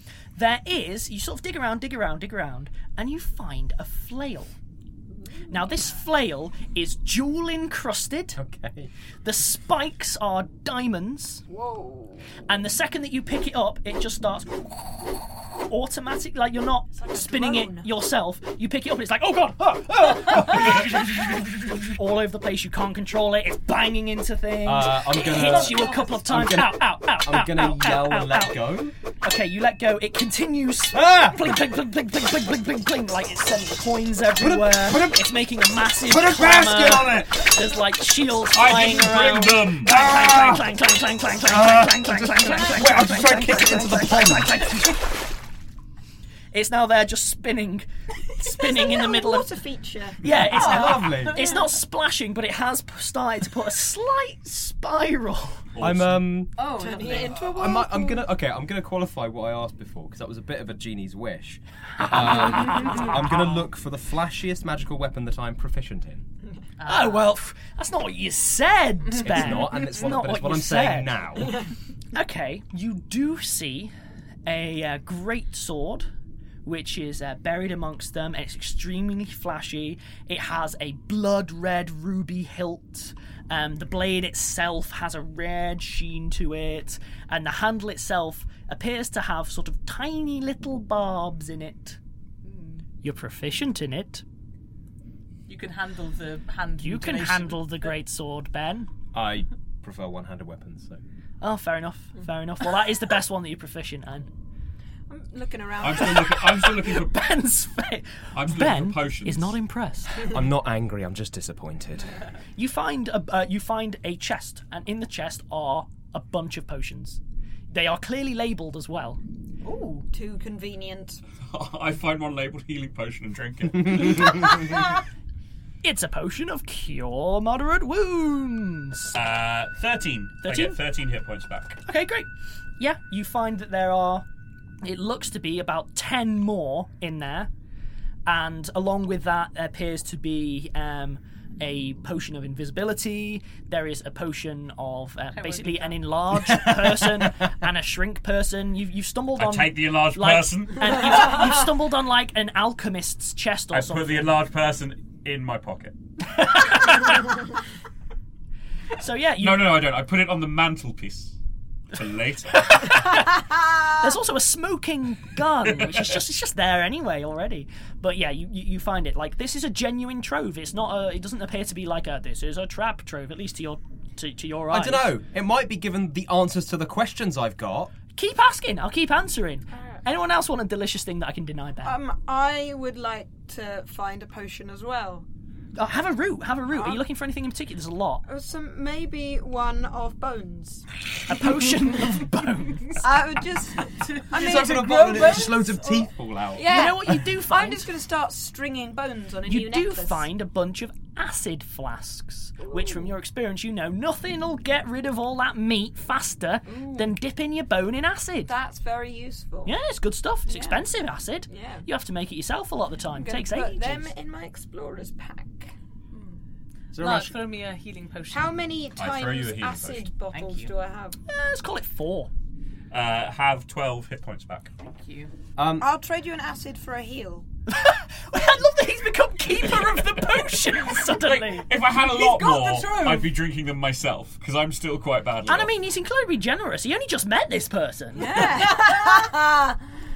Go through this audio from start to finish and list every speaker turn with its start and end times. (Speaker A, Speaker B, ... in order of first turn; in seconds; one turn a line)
Speaker A: 0.3-4.5
Speaker B: 5.1-5.5
Speaker A: 5.5-8.4
Speaker C: 8.3-8.9
Speaker A: 9.2-11.4
Speaker B: 11.5-12.2
Speaker A: 12.5-14.6
Speaker A: 15.7-28.6
Speaker B: 16.9-17.9
Speaker C: 24.6-28.9
Speaker D: 25.4-25.9
Speaker A: 29.2-45.1
Speaker C: 30.9-31.5
Speaker C: 34.4-35.2
Speaker C: 36.0-37.5
Speaker E: 38.5-40.0
Speaker C: 39.8-40.7
Speaker C: 41.4-44.9
Speaker A: 46.5-47.9
Speaker A: 48.4-49.5
Speaker B: 48.4-50.2
Speaker A: 50.2-55.6
Speaker C: 50.4-51.5
Speaker D: 50.5-51.4
Speaker E: 55.7-56.3
Speaker C: 55.8-56.6
Speaker D: 56.5-57.5
Speaker B: 56.7-58.3
Speaker C: 57.3-66.2
Speaker A: 62.7-63.4
Speaker D: 62.8-63.0
Speaker D: 66.8-67.3
Speaker A: 66.8-71.5
Speaker D: 69.1-69.7
Speaker C: 69.2-71.6
Speaker A: 72.1-73.9
Speaker A: 74.5-76.1
Speaker A: 76.6-92.0
Speaker D: 92.4-92.8
Speaker A: 93.0-94.2
Speaker D: 95.5-97.9
Speaker A: 96.8-98.9
Speaker C: 99.1-101.0
Speaker A: 101.4-104.3
Speaker B: 105.1-106.6
Speaker E: 105.8-107.2
Speaker A: 106.6-110.3
Speaker E: 108.3-109.5
Speaker C: 110.3-112.2
Speaker A: 112.5-117.2
Speaker A: 117.7-119.2
Speaker D: 119.6-120.0
Speaker B: 120.1-121.2
Speaker E: 121.5-124.5
Speaker A: 125.8-129.1
Speaker E: 129.1-131.8
Speaker A: 130.4-130.8
Speaker A: 131.8-132.3
Speaker A: 132.8-134.2
Speaker A: 134.8-137.5
Speaker A: 138.2-154.4
Speaker D: 145.3-146.0
Speaker E: 149.4-151.2
Speaker E: 153.7-155.9
Speaker A: 156.3-157.2
Speaker A: 159.0-159.7
Speaker E: 159.4-161.3
Speaker E: 161.9-162.9
Speaker A: 162.6-163.3
Speaker A: 164.0-175.1
Speaker C: 174.7-177.9
Speaker A: 178.2-182.0
Speaker B: 179.7-180.0
Speaker B: 181.8-185.2
Speaker A: 185.8-188.2
Speaker B: 186.7-187.0
Speaker B: 188.2-190.9
Speaker A: 191.3-193.0
Speaker B: 193.0-196.0
Speaker D: 194.1-195.6
Speaker C: 194.3-197.0
Speaker B: 196.5-200.3
Speaker A: 196.7-197.9
Speaker A: 199.5-208.5
Speaker B: 202.6-203.1
Speaker B: 206.7-207.1
Speaker B: 208.4-209.7
Speaker A: 209.6-214.1
Speaker B: 210.5-210.8
Speaker B: 211.5-211.8
Speaker B: 213.2-215.7
Speaker D: 216.1-216.4
Speaker C: 216.9-217.4
Speaker D: 217.0-218.6
Speaker B: 218.3-221.2
Speaker E: 219.0-220.1
Speaker D: 220.3-220.7
Speaker A: 221.3-222.3
Speaker E: 222.9-224.7
Speaker D: 224.8-225.3
Speaker C: 225.6-225.9
Speaker B: 225.8-227.4
Speaker A: 227.7-231.7
Speaker E: 231.1-235.7
Speaker D: 231.8-233.3
Speaker A: 235.4-238.7
Speaker B: 238.1-239.9